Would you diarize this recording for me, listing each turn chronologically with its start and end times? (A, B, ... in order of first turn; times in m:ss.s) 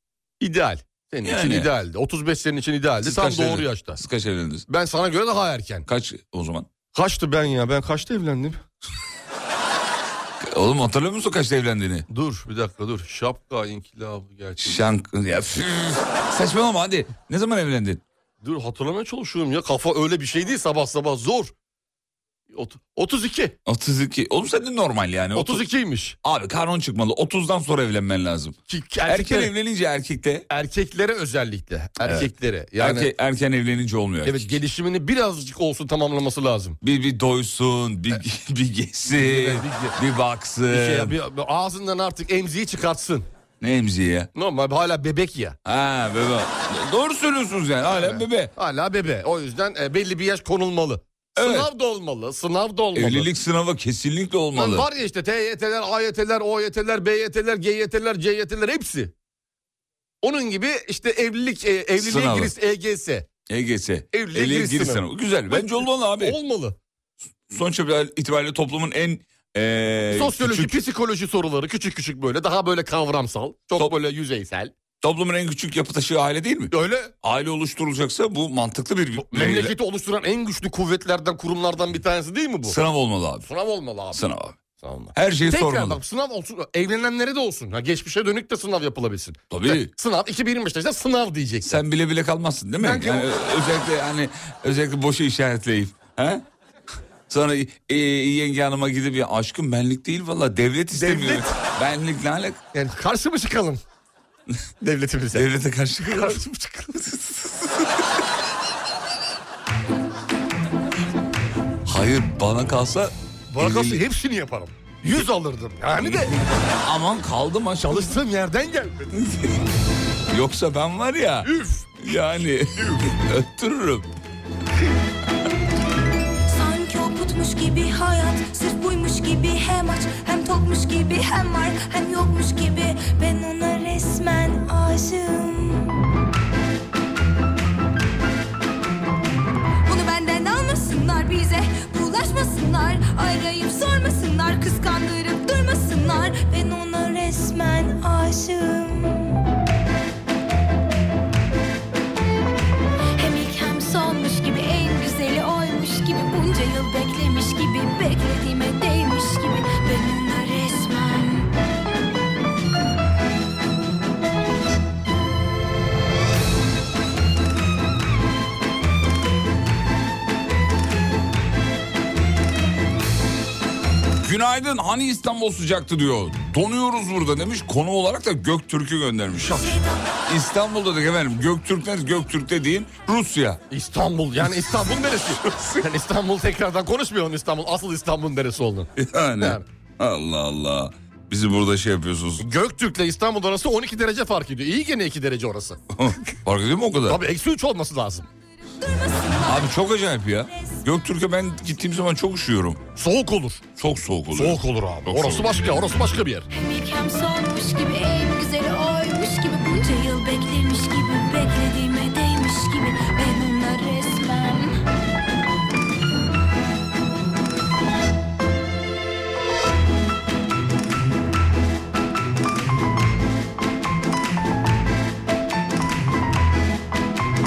0:00.4-0:04.0 A
0:01.2-0:01.7 B
0:03.0-0:04.6 B
0:04.7-0:05.8 A
0:05.8-0:06.7 B
0:06.9-0:08.6 A
0:10.4-0:12.1 B
0:12.1-0:14.8 A
0:14.6-0:18.0 B
0:18.4-0:21.5 A
0:22.5-0:23.6 A
0:23.6-0:25.6 B
0:25.3-0:26.2 A
0:26.2-0:28.5 B
0:28.7-0:29.5 A
0:29.0-0:30.4 B
0:30.5-0:33.1 A
0:32.0-0:34.5 B
0:34.2-0:36.8 A
0:36.8-0:41.1 B
0:39.1-0:40.0 A
0:40.7-0:43.3 A
0:43.6-0:44.3 B
0:44.3-0:45.6 A
0:45.6-0:48.5 B
0:47.8-0:53.3 A
0:51.4-0:51.7 B
0:52.9-0:54.9 B
0:54.5-0:59.1 A
1:00.2-1:03.3 A
1:02.0-1:02.5 B
1:03.5-1:06.4 B
1:04.1-1:06.8 A
1:07.5-1:10.8 B
1:10.1-1:14.7 A
1:15.0-1:19.7 B
1:16.7-1:17.1 A
1:19.2-1:22.8 A
1:22.6-1:23.5 B
1:23.4-1:24.2 A
1:24.1-1:24.6 B
1:24.8-1:31.8 A
1:25.1-1:26.0 B
1:29.5-1:29.9 B
1:31.6-1:36.4 B
1:32.8-1:33.3 A
1:37.3-1:42.6 B
1:40.9-1:41.5 A
1:42.7-1:43.8 A
1:44.8-1:47.4 A
1:45.3-1:46.4 B
1:51.8-1:54.0 B
1:53.5-1:56.3 A
1:56.0-1:58.1 B
1:57.8-1:59.1 A
1:59.2-1:59.6 B
2:00.3-2:04.1 B
2:01.4-2:02.1 A
2:06.5-2:15.9 C
2:19.8-2:29.4 C
2:33.2-2:41.5 C
2:54.2-2:59.7 B
2:59.4-2:59.8 A
3:00.2-3:03.6 B
3:03.7-3:09.6 A
3:09.0-3:12.4 B
3:12.4-3:15.8 A
3:15.9-3:17.2 B
3:17.1-3:18.3 A
3:18.8-3:20.8 C
3:19.4-3:22.8 B
3:23.0-3:23.7 A
3:23.8-3:25.8 B
3:24.3-3:26.5 A
3:26.5-3:34.8 C